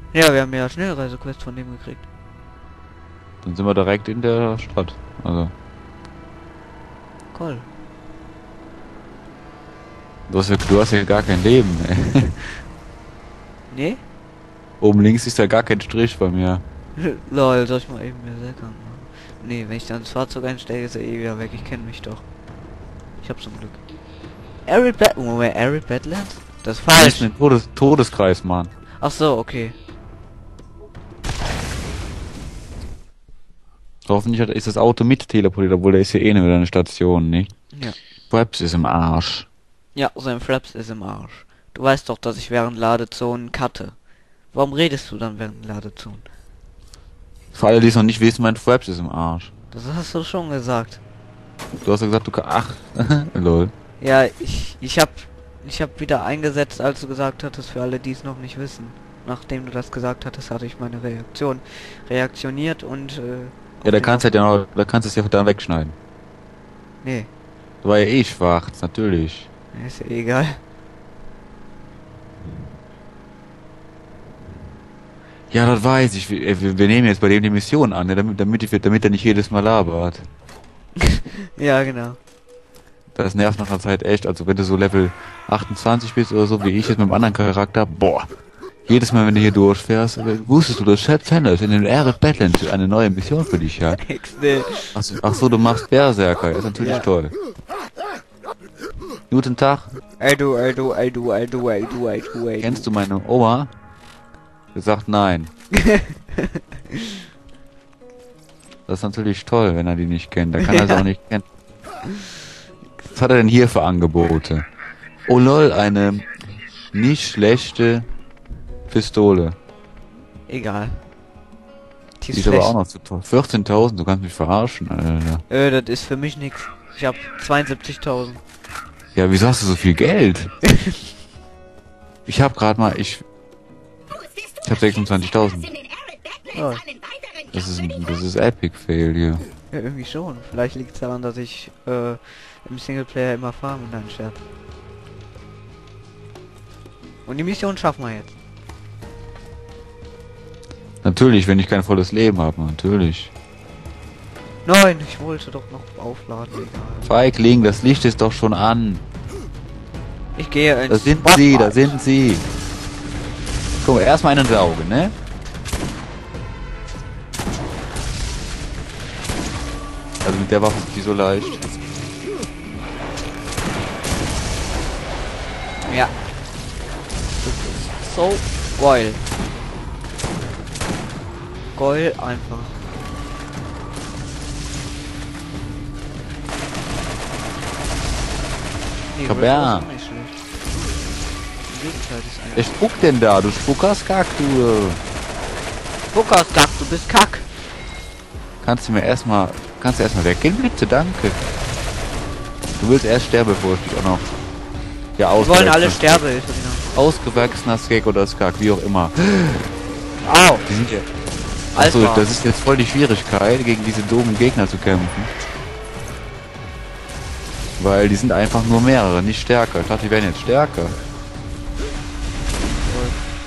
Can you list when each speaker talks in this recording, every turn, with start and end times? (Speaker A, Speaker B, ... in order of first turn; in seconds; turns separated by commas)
Speaker A: 0.1-2.1, Speaker B: 3.4-5.5, Speaker A: 7.3-7.7, Speaker B: 10.3-12.6, Speaker A: 13.7-14.0, Speaker B: 14.8-16.6, Speaker A: 17.0-22.2, Speaker A: 23.2-23.8, Speaker A: 24.7-27.3, Speaker B: 26.9-28.7, Speaker A: 29.0-29.8, Speaker B: 34.1-37.5, Speaker B: 38.3-39.5, Speaker A: 40.0-44.0, Speaker A: 44.5-46.3, Speaker B: 47.5-49.5, Speaker A: 49.7-51.0, Speaker B: 51.8-53.7, Speaker A: 54.0-64.2, Speaker B: 63.8-66.0, Speaker A: 67.0-67.3, Speaker B: 67.8-69.5, Speaker A: 69.7-70.6, Speaker B: 75.5-80.3, Speaker A: 81.0-82.2, Speaker B: 83.2-88.3, Speaker B: 88.9-94.0, Speaker A: 94.0-95.0, Speaker B: 94.9-97.3, Speaker A: 96.8-97.1, Speaker B: 99.3-99.9, Speaker A: 100.2-102.9, Speaker B: 102.6-103.7, Speaker B: 104.7-105.5, Speaker A: 105.7-107.2, Speaker B: 108.9-111.4, Speaker A: 110.6-111.1, Speaker B: 113.1-114.7, Speaker B: 115.3-116.3, Speaker B: 116.9-118.1, Speaker B: 118.9-119.6, Speaker A: 120.5-121.0, Speaker A: 122.2-122.7, Speaker B: 122.3-125.4, Speaker A: 125.5-128.4, Speaker B: 129.2-130.5, Speaker A: 130.6-131.0, Speaker B: 132.3-133.2, Speaker B: 134.6-135.8, Speaker A: 136.5-136.8, Speaker B: 137.5-139.4, Speaker A: 139.7-144.4, Speaker A: 147.3-148.3, Speaker B: 151.0-153.3, Speaker A: 154.7-157.1, Speaker B: 157.1-159.0, Speaker A: 160.3-162.0, Speaker B: 160.9-162.4, Speaker B: 163.8-165.2, Speaker B: 170.2-171.7, Speaker A: 175.8-176.2, Speaker A: 177.4-179.2, Speaker A: 181.8-182.8, Speaker A: 189.1-190.4, Speaker B: 189.3-189.9, Speaker A: 191.7-192.7, Speaker B: 192.6-195.0, Speaker A: 196.1-197.5, Speaker B: 198.6-201.4, Speaker B: 202.8-204.3, Speaker B: 205.2-206.0, Speaker A: 205.4-206.9, Speaker B: 206.9-209.7, Speaker A: 210.2-210.7, Speaker B: 210.7-211.1, Speaker A: 211.8-212.3, Speaker B: 211.8-215.3, Speaker B: 217.8-221.0, Speaker A: 222.8-223.3